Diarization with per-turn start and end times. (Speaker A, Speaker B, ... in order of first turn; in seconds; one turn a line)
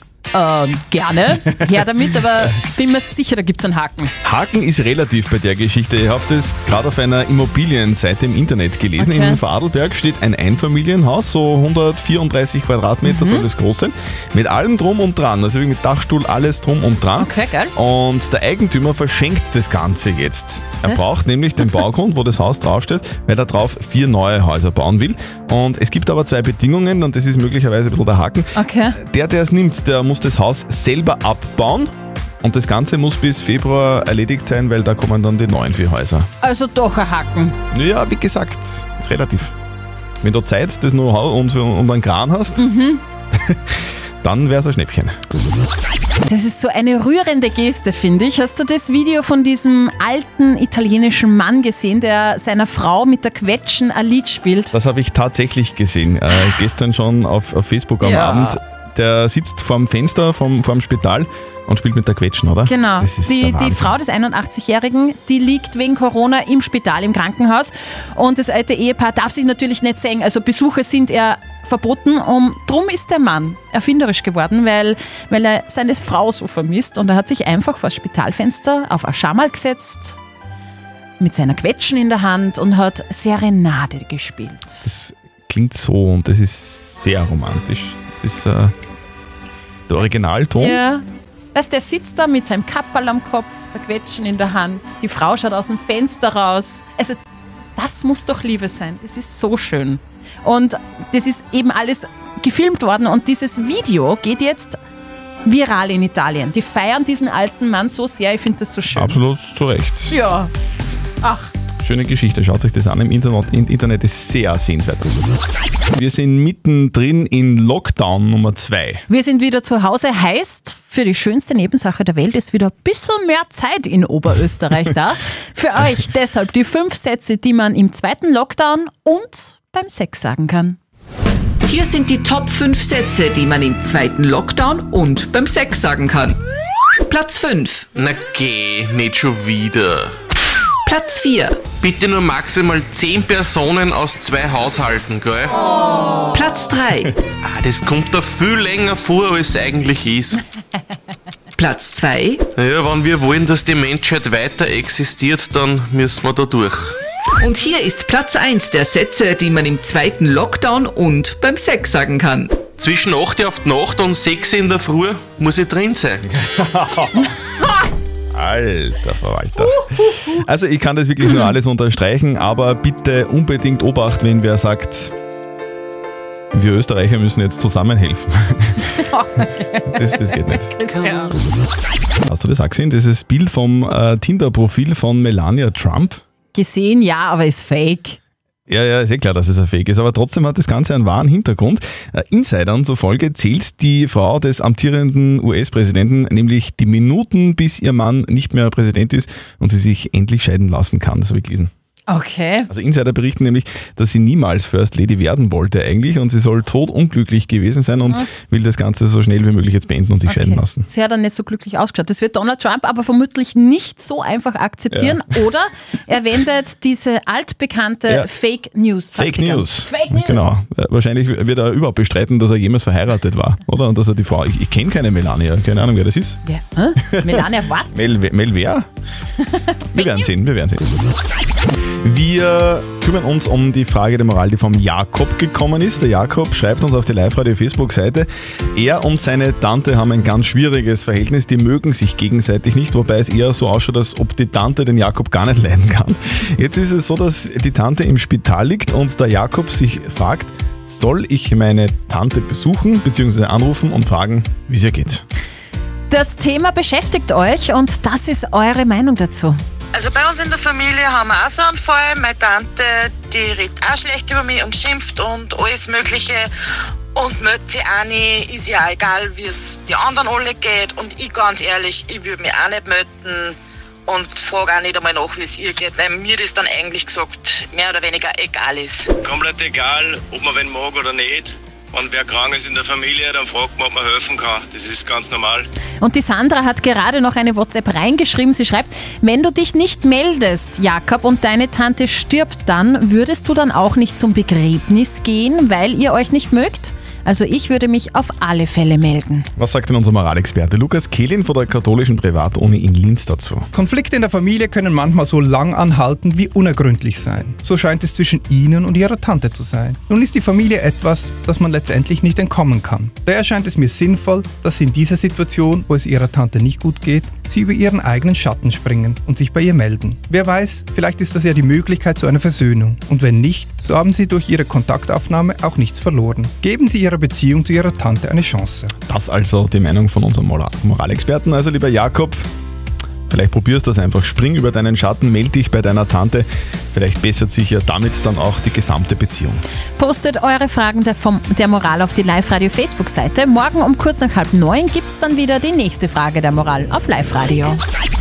Speaker A: 0.3-4.1
Speaker B: 4.2-31.9
Speaker A: 9.0-9.4
Speaker A: 13.0-13.4
Speaker A: 17.2-17.7
Speaker A: 28.6-28.9
Speaker B: 32.4-36.3
Speaker A: 36.4-37.5
Speaker B: 37.7-39.5
Speaker B: 40.2-42.6
Speaker A: 42.6-43.0
Speaker B: 43.3-45.1
Speaker A: 46.2-54.7
Speaker B: 54.7-64.0
Speaker A: 58.0-58.6
Speaker A: 62.7-80.2
Speaker A: 81.2-84.8
Speaker B: 84.8-88.7
Speaker B: 89.9-90.8
Speaker A: 90.6-91.0
Speaker A: 91.5-97.2
Speaker A: 97.8-104.8
Speaker A: 105.4-109.2
Speaker B: 108.9-110.2
Speaker A: 110.1-110.5
Speaker A: 111.2-111.5
Speaker B: 111.8-115.1
Speaker B: 115.9-119.0
Speaker A: 119.1-130.8
Speaker C: 131.7-136.4
Speaker C: 137.1-137.9
Speaker D: 137.9-140.1
Speaker C: 140.8-141.7
Speaker D: 141.8-145.5
Speaker C: 146.3-147.1
Speaker D: 147.4-150.4
Speaker C: 151.6-152.5
Speaker D: 152.6-156.9
Speaker C: 157.4-162.6
Speaker D: 162.8-166.2
Speaker B: 166.3-167.3
Speaker B: 168.3-175.1
Speaker B: 176.5-178.8
Speaker A: 179.0-181.3
Speaker B: 179.9-180.7
Speaker B: 182.2-186.2
Speaker A: 186.5-188.2
Speaker B: 188.7-201.7
Speaker A: 202.1-202.7
Speaker B: 202.7-210.9
Speaker A: 210.3-220.5
Speaker B: 214.9-215.2
Speaker B: 219.1-226.4
Speaker A: 226.4-227.9
Speaker B: 227.1-228.8
Speaker B: 229.9-230.9
Speaker A: 229.9-230.3
Speaker B: 232.0-255.2
Speaker A: 256.1-259.6
Speaker E: 259.9-266.5
Speaker E: 267.1-273.6
Speaker E: 274.1-279.1
Speaker F: 279.2-285.7
Speaker A: 286.0-299.5
Speaker B: 299.6-303.6
Speaker G: 303.7-328.9
Speaker B: 329.1-332.5
Speaker B: 333.3-339.6
Speaker A: 340.0-347.8